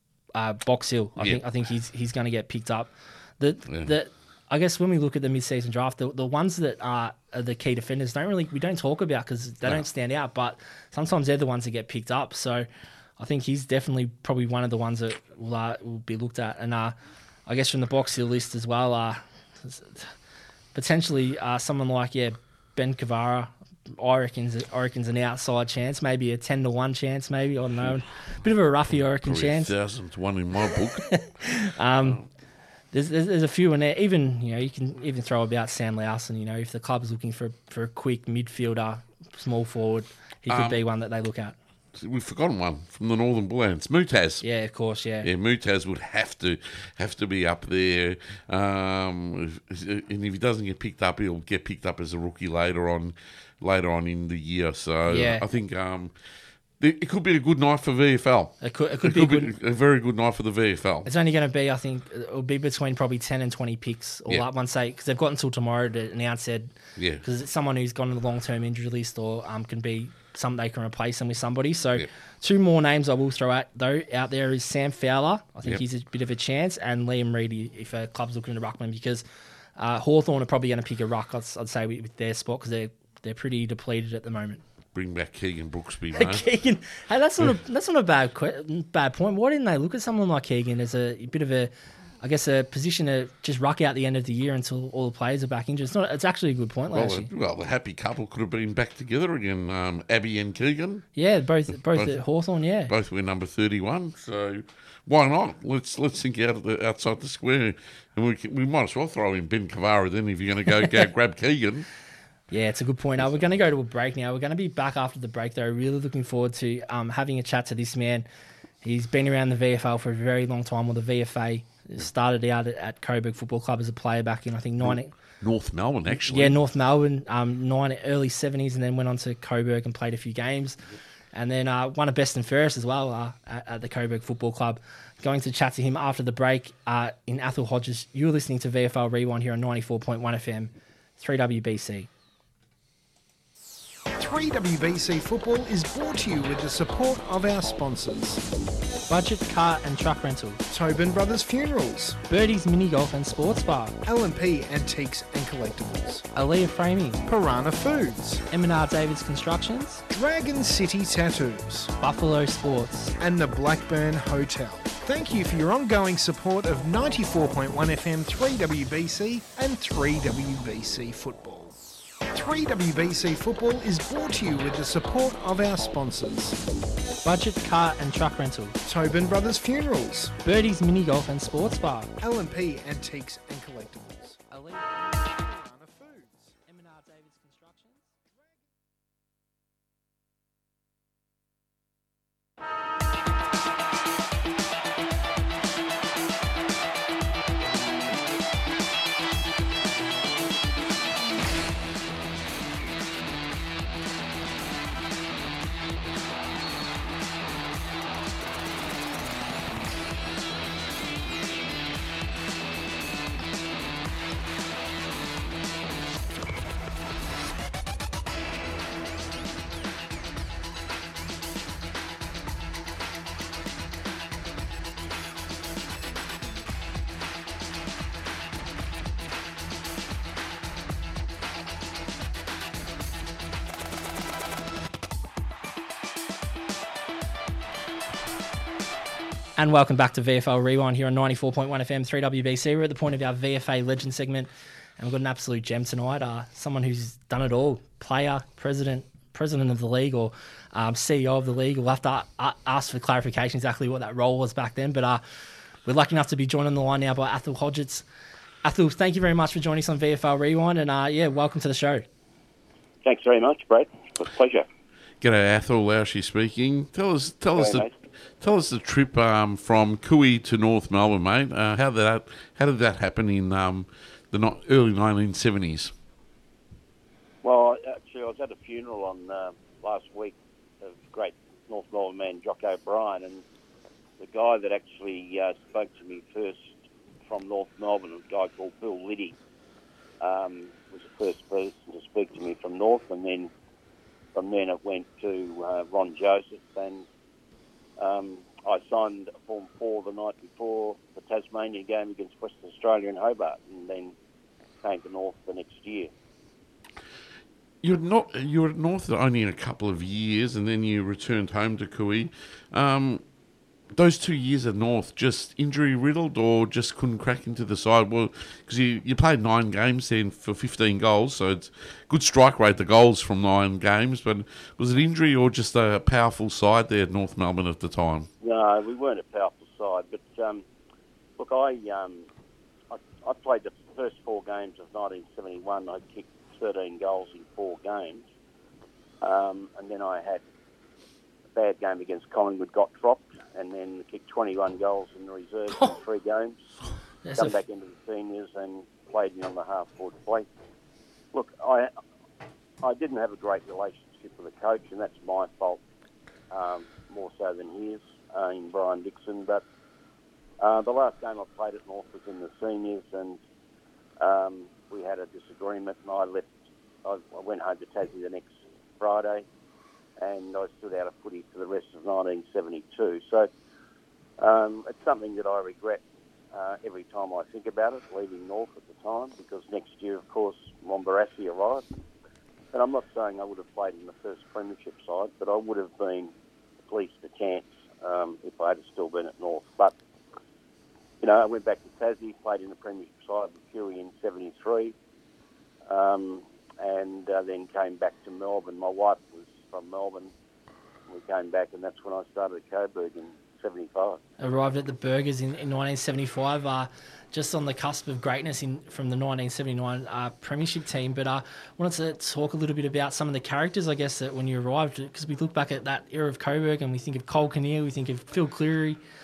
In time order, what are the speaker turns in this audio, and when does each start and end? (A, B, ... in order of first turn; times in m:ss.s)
0:00.3-0:12.7 A
0:13.2-0:17.0 A
0:17.5-0:20.1 A
0:20.7-0:29.7 A
0:29.2-0:31.2 B
0:31.1-0:32.2 A
0:32.0-0:32.2 B
0:32.9-0:41.6 A
0:40.5-0:40.8 B
0:41.9-0:44.4 B
0:44.4-0:45.3 A
0:45.2-0:56.1 B
0:55.1-0:55.4 A
0:56.8-1:01.1 B
0:58.6-0:59.5 A
1:01.0-1:19.2 A
1:07.0-1:07.2 B
1:19.8-1:24.6 A
1:24.9-1:26.4 B
1:26.1-1:37.3 A
1:36.9-1:41.1 B
1:41.2-1:42.9 A
1:42.9-1:51.9 B
1:52.5-1:58.2 A
1:58.8-2:05.1 A
2:04.8-2:06.6 B
2:06.1-2:10.8 A
2:11.3-2:22.1 A
2:24.2-2:28.4 C
2:29.1-2:30.6 A
2:30.7-2:32.2 C
2:32.3-2:34.0 A
2:34.0-2:36.2 C
2:36.3-2:37.2 A
2:37.2-2:38.4 C
2:38.5-2:40.0 A
2:40.1-2:41.9 C
2:42.0-2:43.1 A
2:43.2-2:51.7 C
2:52.3-2:56.6 C
2:57.2-2:58.8 A
2:58.8-3:00.4 C
3:00.4-3:02.1 A
3:02.2-3:06.6 C
3:04.5-3:05.0 A
3:06.6-3:08.1 A
3:59.6-4:15.2 A
4:15.8-4:18.0 A
4:18.6-4:22.0 A
4:23.0-4:24.7 D
4:25.2-4:27.9 B
4:27.5-4:27.9 D
4:28.4-4:35.9 B
4:37.4-4:43.4 D
4:44.2-4:46.7 D
4:47.2-4:49.4 D
4:50.2-4:53.5 D
4:54.3-4:57.0 D
4:58.0-5:04.1 D
5:04.8-5:06.1 D
5:07.8-5:13.2 B
5:13.9-5:28.3 B
5:28.4-5:30.6 D
5:31.4-5:32.3 D
5:32.9-5:38.2 D
5:39.2-5:40.4 D
5:41.5-5:46.6 D
5:47.2-5:47.6 A
5:47.4-5:50.5 D
5:51.3-5:51.9 D
5:52.8-5:55.8 D
5:56.5-5:59.6 D
6:00.6-6:03.4 D
6:04.2-6:09.4 D
6:10.2-6:13.5 D
6:14.4-6:16.0 D
6:16.5-6:21.8 D
6:22.7-6:26.3 D
6:26.8-6:30.0 D
6:31.2-6:34.9 D
6:35.9-6:40.3 D
6:41.1-6:44.2 D
6:44.4-6:59.0 A